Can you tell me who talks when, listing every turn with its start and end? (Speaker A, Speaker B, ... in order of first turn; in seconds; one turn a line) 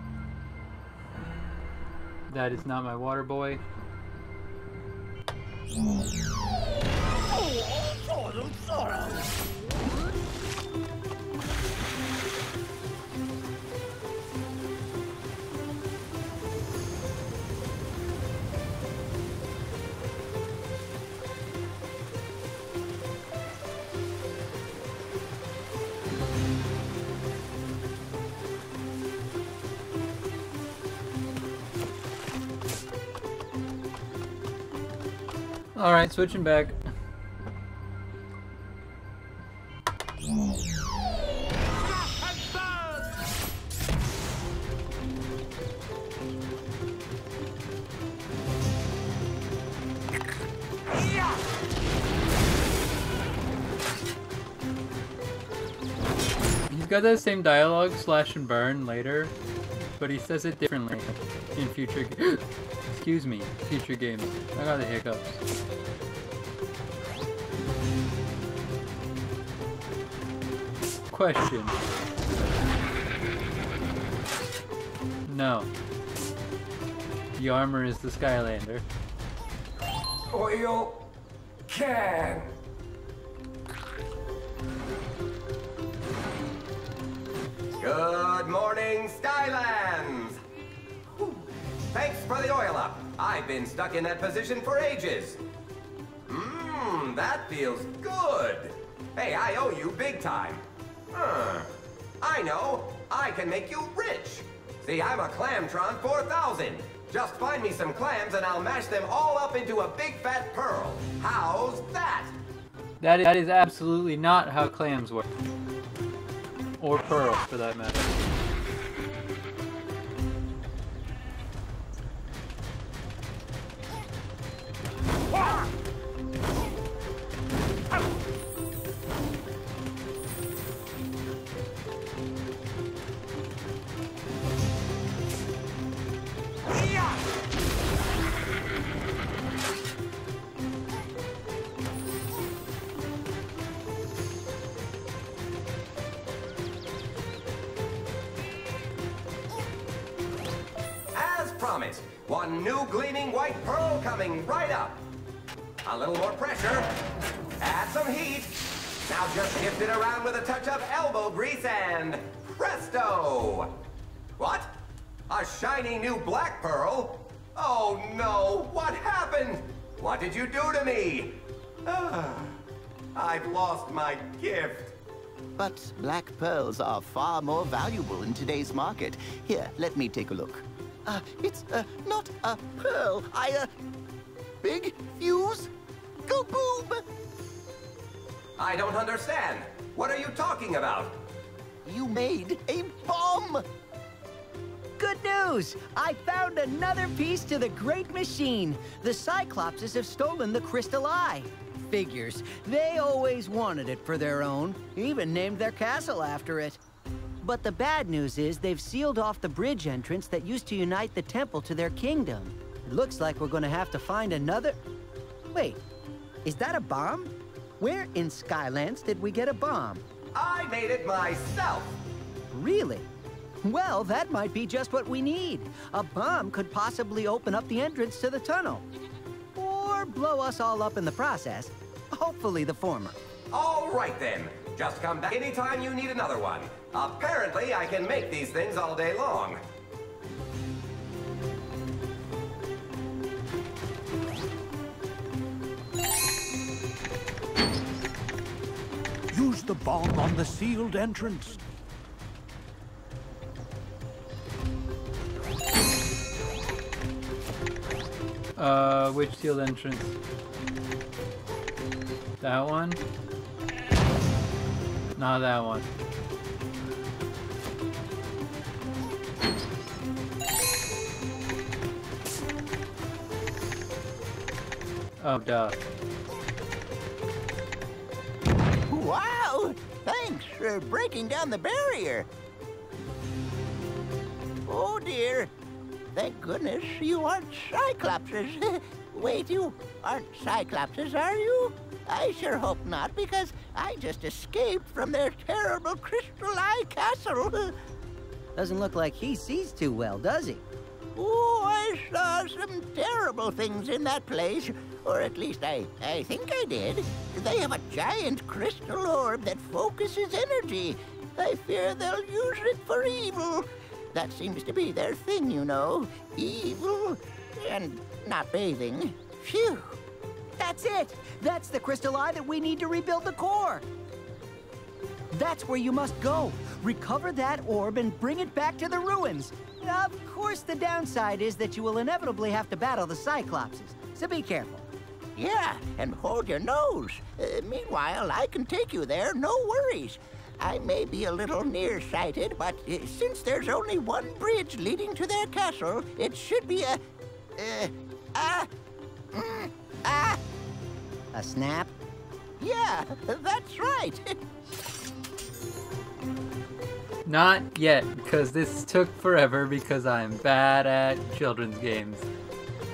Speaker A: 2.3-3.6
Speaker A: 35.8-36.8
Speaker A: 56.7-59.3
Speaker A: 60.0-65.4
Speaker A: 71.1-71.8
Speaker A: 75.2-75.7
Speaker A: 77.3-78.8
Speaker B: 80.3-81.1
Speaker B: 81.7-82.5
Speaker B: 87.8-90.4
Speaker B: 91.1-95.4
Speaker B: 96.3-101.7
Speaker B: 102.2-112.3
Speaker A: 113.0-115.3
Speaker A: 116.8-118.1
Speaker B: 151.1-155.0
Speaker B: 155.8-156.9
Speaker B: 157.6-163.8
Speaker B: 164.4-164.7
Speaker B: 165.3-172.6
Speaker B: 173.1-174.9
Speaker C: 175.6-183.7
Speaker C: 184.6-185.7
Speaker C: 186.2-187.0
Speaker B: 188.6-191.2
Speaker C: 191.8-193.6
Speaker D: 195.0-206.8
Speaker D: 207.4-214.8
Speaker D: 215.5-215.8
Speaker D: 216.4-220.0
Speaker B: 220.3-222.0
Speaker D: 222.5-223.1
Speaker D: 223.6-228.8
Speaker D: 229.6-233.2
Speaker B: 233.5-239.6
Speaker E: 249.3-251.6
Speaker A: 258.6-260.2
Speaker A: 262.4-263.0
Speaker A: 265.2-265.8
Speaker A: 275.2-275.8
Speaker C: 278.9-282.3
Speaker C: 284.7-285.5
Speaker C: 286.1-297.8
Speaker D: 298.6-300.6
Speaker C: 301.1-319.9
Speaker D: 320.6-323.8
Speaker D: 325.3-334.9
Speaker C: 335.3-347.0
Speaker C: 347.6-348.7
Speaker C: 349.3-350.4
Speaker D: 351.3-351.9
Speaker C: 352.6-354.4
Speaker A: 357.2-362.3